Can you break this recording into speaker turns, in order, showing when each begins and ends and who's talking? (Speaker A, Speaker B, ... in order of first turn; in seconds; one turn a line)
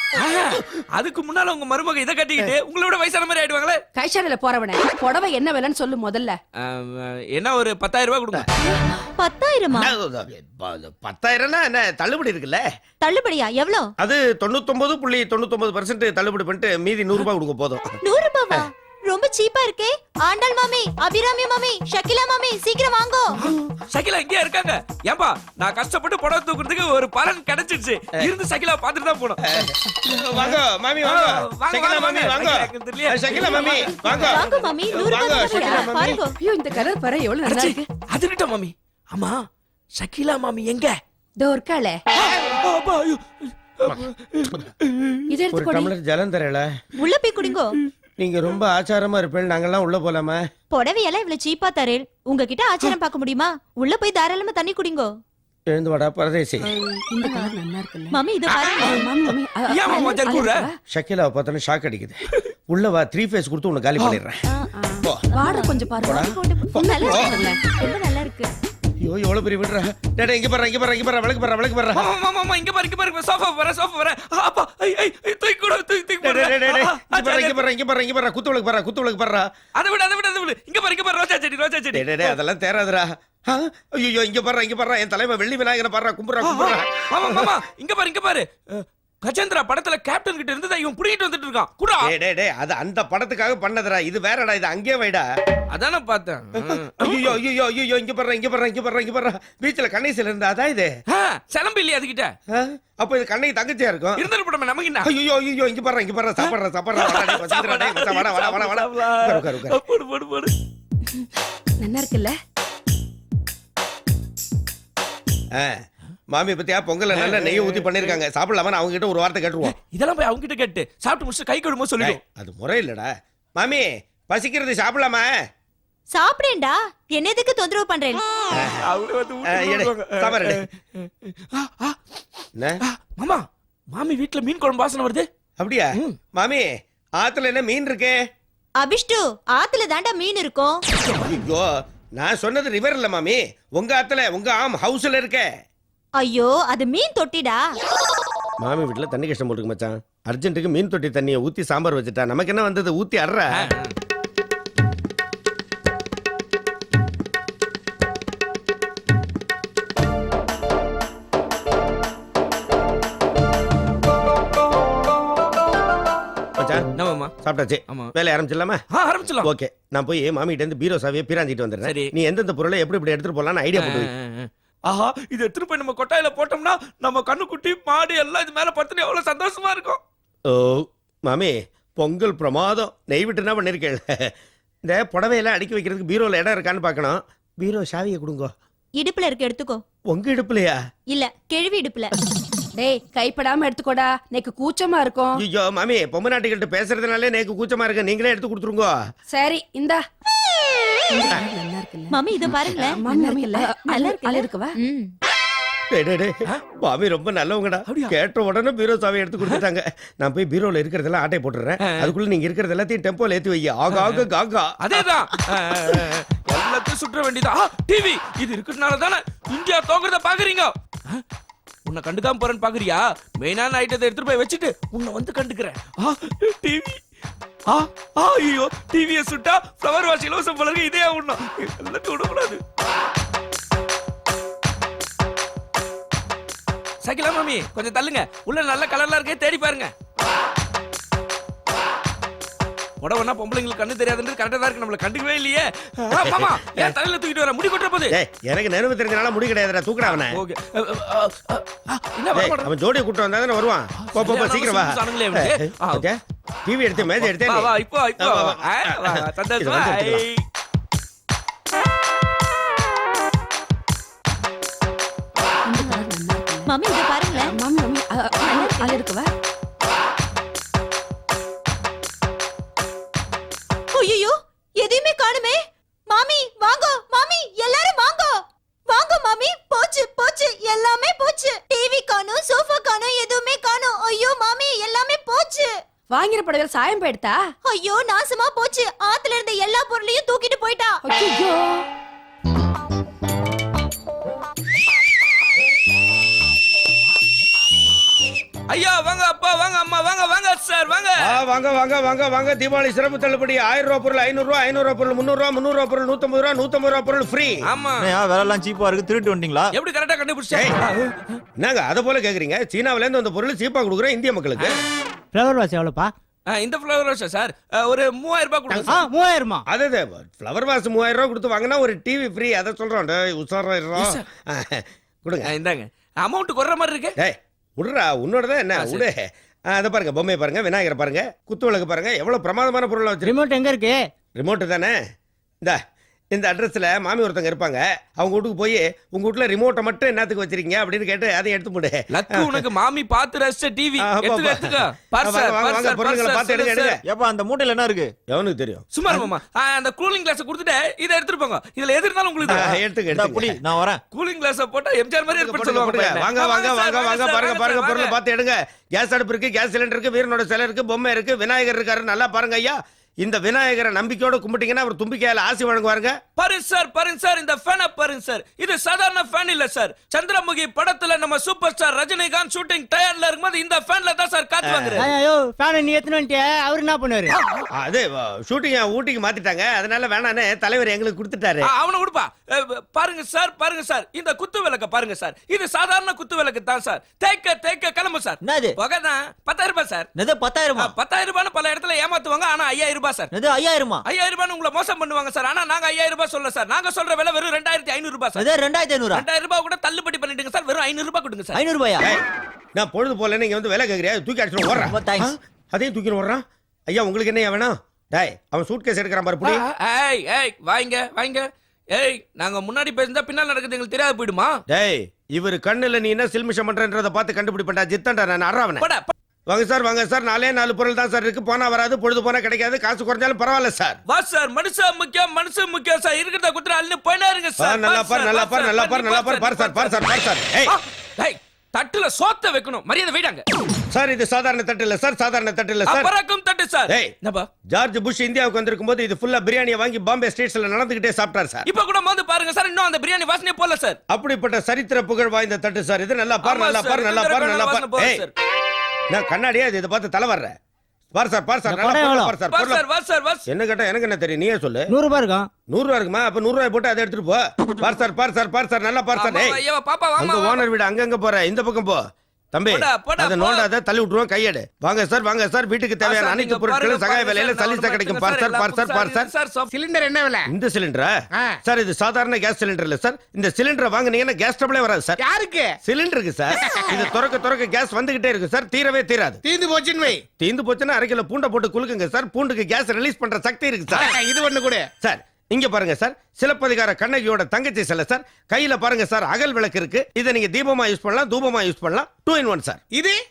Speaker A: 0.1-3.8
Speaker B: 4.0-6.4
Speaker A: 6.6-8.4
Speaker C: 9.2-9.9
Speaker D: 9.7-12.6
Speaker C: 13.0-13.9
Speaker D: 14.0-18.0
Speaker C: 18.0-23.4
Speaker A: 23.4-29.6
Speaker D: 29.5-36.2
Speaker A: 30.3-34.2
Speaker B: 33.3-34.7
Speaker C: 34.1-36.3
Speaker B: 35.2-37.8
Speaker A: 37.5-39.4
Speaker A: 40.0-41.0
Speaker B: 41.4-42.0
Speaker A: 42.1-45.2
Speaker B: 45.3-45.9
Speaker D: 45.5-46.7
Speaker C: 47.0-47.8
Speaker D: 48.2-50.4
Speaker C: 50.7-55.1
Speaker D: 55.7-56.6
Speaker B: 56.9-58.2
Speaker C: 57.2-57.5
Speaker C: 58.1-59.0
Speaker B: 58.8-60.8
Speaker A: 59.7-60.6
Speaker D: 60.9-64.4
Speaker B: 64.8-67.6
Speaker C: 65.3-68.5
Speaker D: 66.1-67.3
Speaker D: 69.0-72.0
Speaker A: 71.9-77.6
Speaker D: 76.2-79.5
Speaker A: 79.8-82.4
Speaker D: 81.9-87.5
Speaker A: 86.4-92.1
Speaker D: 92.0-95.3
Speaker A: 95.7-97.4
Speaker D: 96.6-100.9
Speaker A: 101.1-102.3
Speaker D: 102.5-104.2
Speaker A: 104.2-105.1
Speaker D: 105.0-109.8
Speaker A: 106.4-110.5
Speaker B: 111.8-112.3
Speaker D: 115.5-119.8
Speaker A: 117.1-118.2
Speaker A: 119.6-122.2
Speaker D: 122.0-125.3
Speaker C: 126.1-128.2
Speaker D: 128.5-128.8
Speaker A: 128.6-132.0
Speaker D: 129.5-130.6
Speaker A: 132.8-135.3
Speaker D: 135.6-138.2
Speaker C: 138.8-140.8
Speaker D: 141.2-145.5
Speaker C: 146.2-147.6
Speaker D: 148.6-153.7
Speaker A: 153.5-153.9
Speaker D: 166.6-166.9
Speaker A: 166.9-167.3
Speaker D: 167.4-168.8
Speaker A: 168.9-169.5
Speaker D: 169.4-174.1
Speaker A: 171.8-172.1
Speaker A: 173.8-180.0
Speaker D: 180.5-184.3
Speaker D: 184.8-188.5
Speaker C: 189.0-189.8
Speaker D: 190.1-190.8
Speaker C: 191.1-192.1
Speaker B: 192.8-195.4
Speaker D: 195.4-199.1
Speaker B: 199.3-200.0
Speaker B: 201.1-202.2
Speaker C: 202.1-205.1
Speaker D: 202.5-202.9
Speaker B: 203.0-204.7
Speaker D: 205.9-214.8
Speaker A: 207.9-208.1
Speaker A: 213.9-214.2
Speaker A: 214.8-221.2
Speaker A: 221.8-227.0
Speaker A: 227.7-232.6
Speaker A: 237.0-239.9
Speaker A: 243.0-248.2
Speaker D: 246.1-246.9
Speaker D: 248.1-250.4
Speaker A: 250.0-252.7
Speaker D: 252.3-260.2
Speaker A: 254.1-256.0
Speaker A: 257.0-260.4
Speaker B: 265.6-266.7
Speaker C: 266.7-267.5
Speaker B: 267.4-269.3
Speaker C: 268.4-269.0
Speaker C: 273.9-275.6
Speaker C: 276.1-285.7
Speaker B: 286.1-287.4
Speaker C: 287.6-291.0
Speaker B: 291.0-291.8
Speaker A: 298.7-301.3
Speaker D: 301.2-307.6
Speaker A: 307.6-308.1
Speaker E: 308.0-309.7
Speaker A: 309.7-311.4
Speaker D: 311.6-314.8
Speaker F: 315.3-316.1
Speaker A: 316.5-318.9
Speaker F: 318.9-319.6
Speaker D: 319.7-325.5
Speaker A: 323.9-324.2
Speaker A: 325.4-327.1
Speaker D: 327.2-333.4
Speaker A: 328.8-329.1
Speaker F: 333.2-334.1
Speaker D: 334.4-335.0
Speaker D: 336.3-342.6
Speaker A: 342.1-346.9
Speaker D: 344.0-347.0
Speaker E: 347.1-348.1
Speaker D: 348.3-349.3
Speaker A: 348.9-352.8
Speaker D: 352.5-353.6
Speaker E: 353.1-354.0
Speaker A: 354.1-358.1
Speaker D: 355.3-366.2
Speaker A: 366.4-375.1
Speaker D: 374.6-375.1
Speaker F: 375.0-377.4
Speaker A: 377.3-377.6
Speaker D: 377.8-381.7
Speaker A: 381.6-390.1
Speaker E: 388.4-388.8
Speaker E: 390.1-391.0
Speaker A: 390.8-393.3
Speaker E: 393.3-394.0
Speaker A: 394.1-398.4
Speaker E: 398.3-399.2
Speaker A: 399.1-401.6
Speaker E: 401.5-402.1
Speaker D: 402.8-409.6
Speaker E: 404.8-405.3
Speaker A: 409.4-414.6
Speaker D: 414.7-418.9
Speaker A: 418.8-419.1
Speaker D: 419.5-424.0
Speaker A: 424.1-430.1
Speaker D: 427.6-430.8
Speaker A: 430.7-433.4
Speaker D: 433.9-436.1
Speaker A: 435.9-437.5
Speaker D: 437.7-441.6
Speaker A: 441.7-444.0
Speaker D: 444.1-448.2
Speaker A: 446.4-448.3
Speaker D: 449.1-450.5
Speaker D: 451.1-452.8
Speaker F: 451.7-452.3
Speaker A: 452.5-453.5
Speaker D: 453.5-454.9
Speaker F: 454.9-455.5
Speaker D: 455.7-459.6
Speaker A: 459.1-460.6
Speaker D: 460.2-462.0
Speaker D: 462.5-469.3
Speaker A: 462.7-463.7
Speaker A: 466.0-469.7
Speaker G: 469.7-470.5
Speaker D: 470.5-471.1
Speaker D: 471.6-475.2
Speaker G: 475.2-475.7
Speaker D: 475.8-479.4
Speaker G: 476.6-477.0
Speaker G: 479.4-480.2
Speaker D: 480.4-484.1
Speaker G: 483.9-484.9
Speaker D: 485.0-492.8
Speaker G: 492.9-493.2